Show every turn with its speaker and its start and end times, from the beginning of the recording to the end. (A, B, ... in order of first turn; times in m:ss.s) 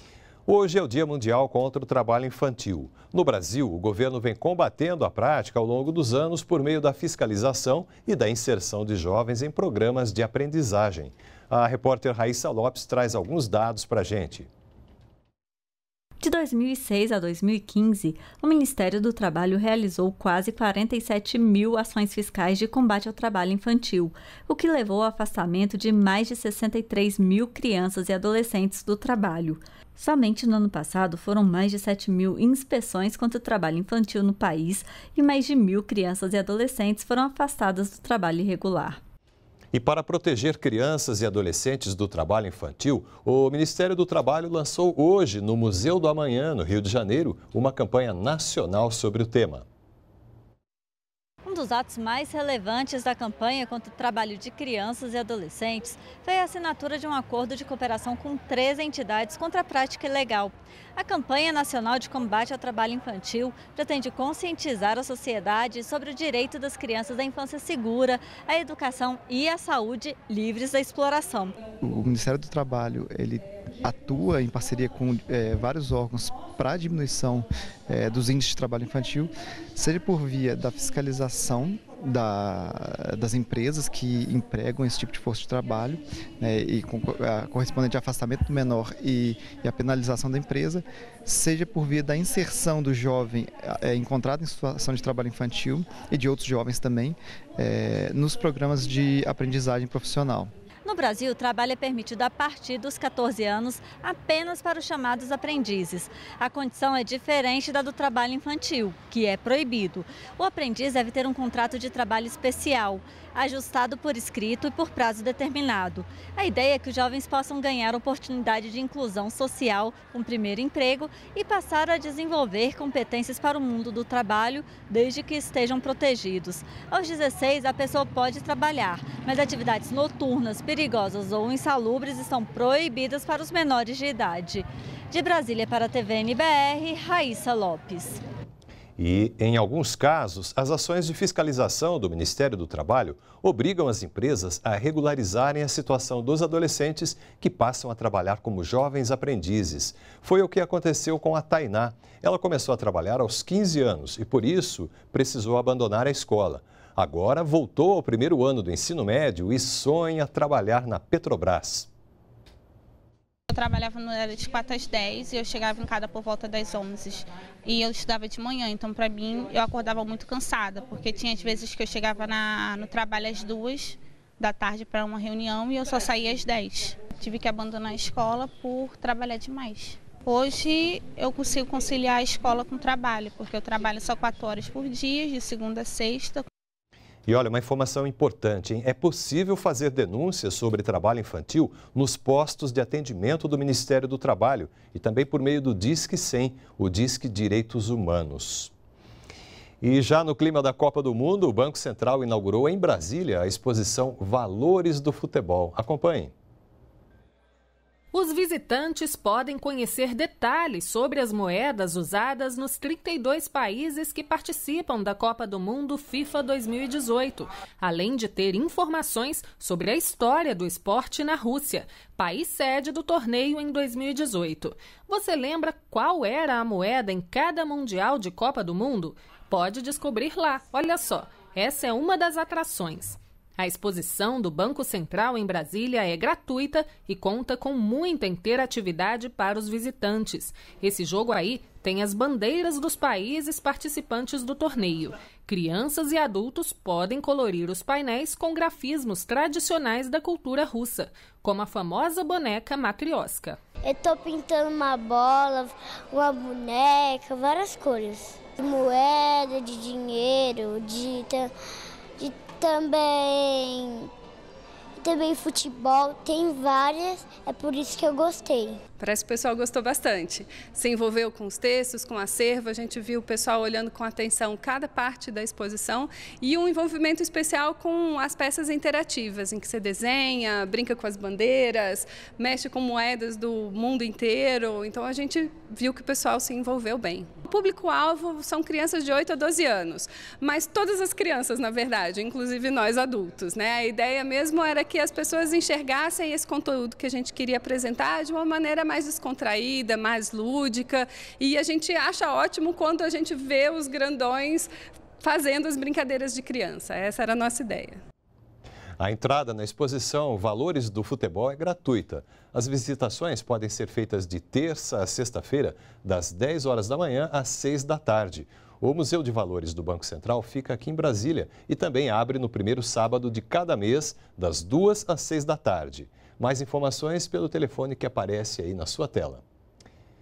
0:00.5-0:14.5 A
0:16.2-0:39.0 B
0:39.7-0:49.6 A
0:51.4-1:11.6 B
1:11.8-1:40.5 C
1:40.8-2:18.2 B
2:19.0-2:41.9 A
2:43.5-3:06.5 D
3:07.3-3:18.7 A
3:19.8-3:26.3 A
3:28.1-4:13.6 E
4:13.8-4:21.5 F
4:22.2-4:24.1 F
4:25.0-4:28.8 F
4:29.0-5:08.0 G
5:09.0-5:29.4 A